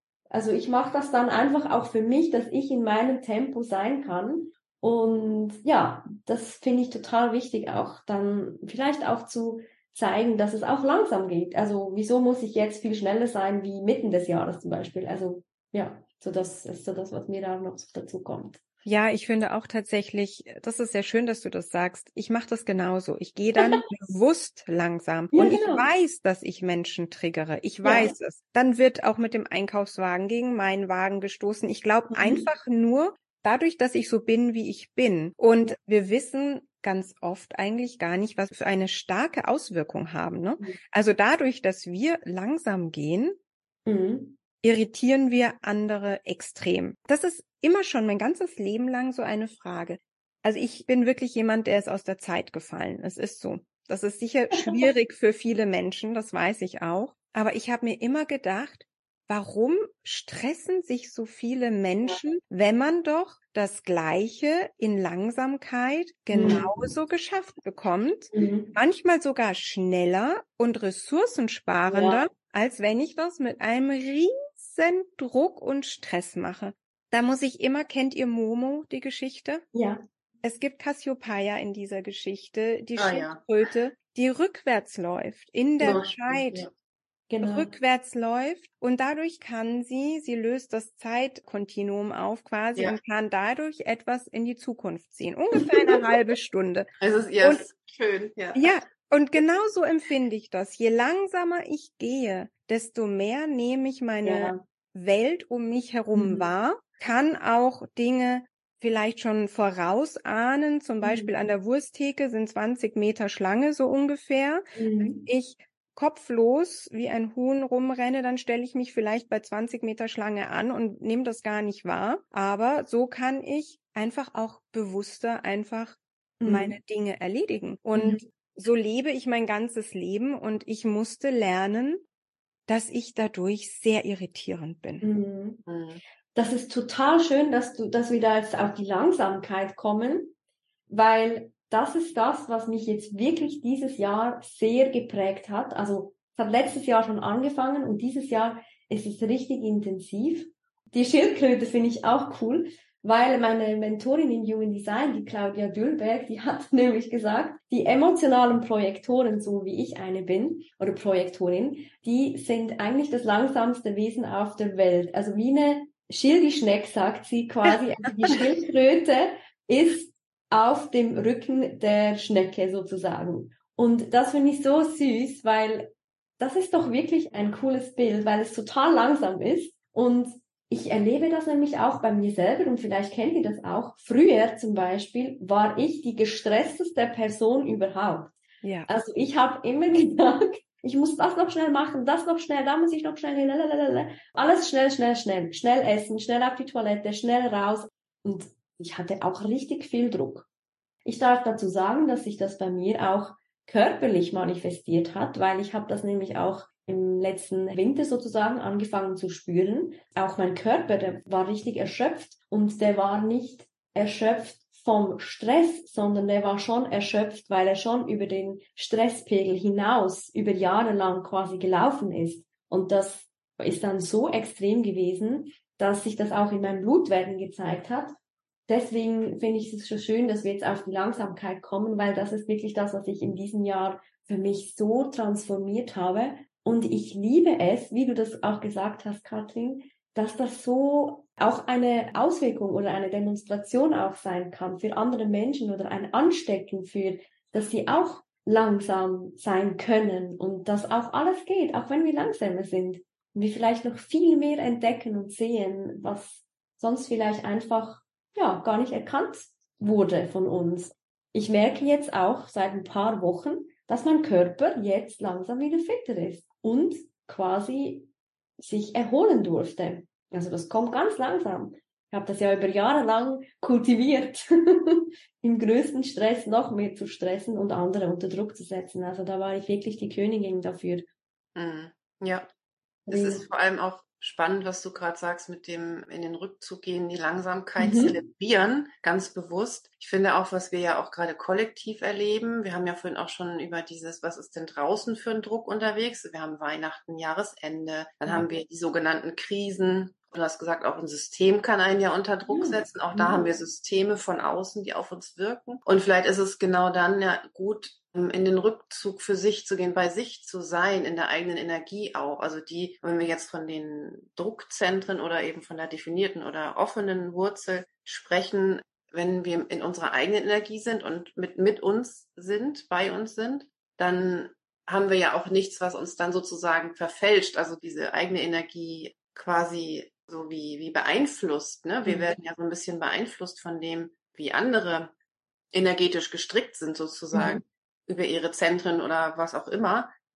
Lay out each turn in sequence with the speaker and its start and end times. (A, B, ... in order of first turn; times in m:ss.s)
0:00.3-0:18.6 A
0:18.8-0:43.4 B
0:23.6-0:23.8 A
0:25.3-0:25.9 A
0:27.8-0:28.2 A
0:32.1-0:32.5 A
0:43.9-0:44.4 A
0:44.6-1:19.6 B
0:54.5-0:54.9 A
1:06.3-1:06.7 A
1:08.3-1:08.8 A
1:11.9-1:12.2 A
1:19.7-1:20.0 A
1:20.4-1:26.7 B
1:23.0-1:23.4 C
1:25.8-1:26.7 C
1:27.3-1:27.7 A
1:27.4-1:36.9 B
1:37.0-1:38.8 C
1:38.6-2:12.0 B
1:44.2-1:44.6 A
1:46.1-1:46.5 A
1:51.0-1:51.5 A
1:54.8-1:55.2 A
2:06.4-2:06.8 A
2:08.0-2:08.2 A
2:12.7-2:15.0 B
2:15.0-2:15.6 A
2:15.7-2:16.0 C
2:16.4-2:20.3 A
2:20.9-3:08.4 A
3:08.6-3:08.9 B
3:08.9-3:20.5 A
3:21.1-3:48.2 A
3:48.7-4:41.1 A
4:41.6-4:42.5 C
4:43.1-4:43.4 A
4:43.1-5:35.1 C
4:47.8-4:48.2 A
5:02.5-5:03.5 A
5:32.0-5:32.4 A
5:35.7-5:40.1 C
5:37.3-5:37.6 A